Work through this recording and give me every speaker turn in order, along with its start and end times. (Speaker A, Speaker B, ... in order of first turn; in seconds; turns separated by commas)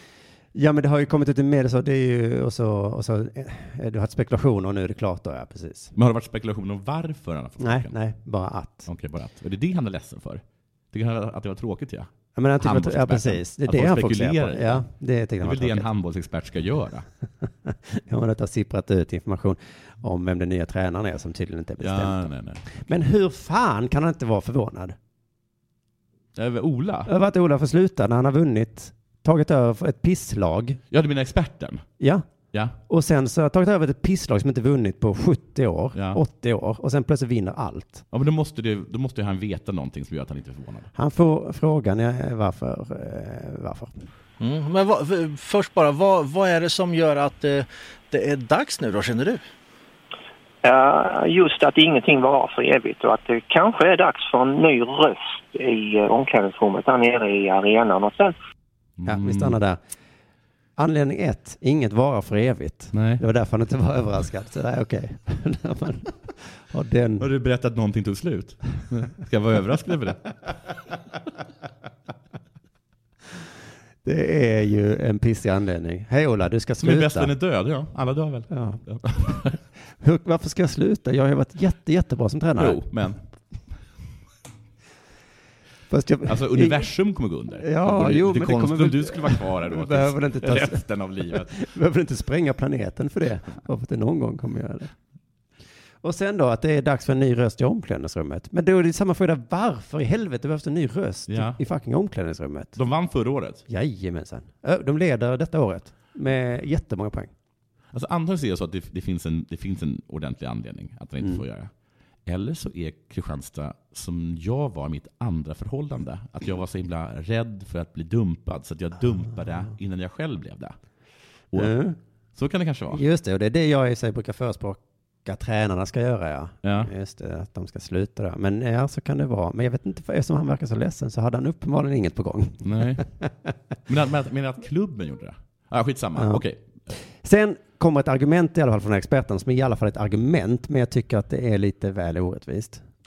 Speaker A: 0.5-5.9, Speaker B: 6.0-8.0, Speaker A: 7.6-8.9, Speaker B: 8.9-12.1, Speaker A: 12.4-15.9, Speaker B: 12.6-14.9, Speaker B: 15.4-17.1, Speaker A: 17.7-25.0, Speaker B: 21.8-22.7, Speaker B: 26.4-27.1, Speaker A: 27.1-30.8, Speaker B: 30.9-31.8, Speaker A: 32.0-32.2, Speaker A: 32.8-38.0, Speaker B: 36.0-36.2, Speaker B: 38.1-40.9, Speaker A: 41.0-44.0, Speaker C: 44.4-49.4, Speaker D: 50.6-58.3, Speaker B: 59.0-59.6, Speaker A: 59.0-59.8, Speaker A: 60.8-67.3, Speaker B: 62.9-63.2, Speaker B: 67.2-70.3, Speaker A: 74.0-77.3, Speaker B: 76.8-79.6, Speaker A: 78.5-78.8, Speaker A: 79.9-82.9, Speaker B: 82.6-83.2, Speaker A: 85.9-86.9, Speaker B: 86.3-91.5, Speaker A: 87.6-94.9, Speaker A: 96.0-102.8, Speaker B: 101.3-101.6, Speaker B: 102.8-103.7, Speaker A: 103.7-107.3, Speaker B: 107.9-111.7, Speaker B: 112.3-120.8, Speaker A: 121.5-122.0, Speaker B: 122.4-123.0, Speaker A: 122.9-133.5, Speaker B: 126.6-126.9, Speaker B: 132.6-133.1, Speaker B: 133.9-136.7, Speaker A: 136.2-136.4, Speaker A: 137.2-142.8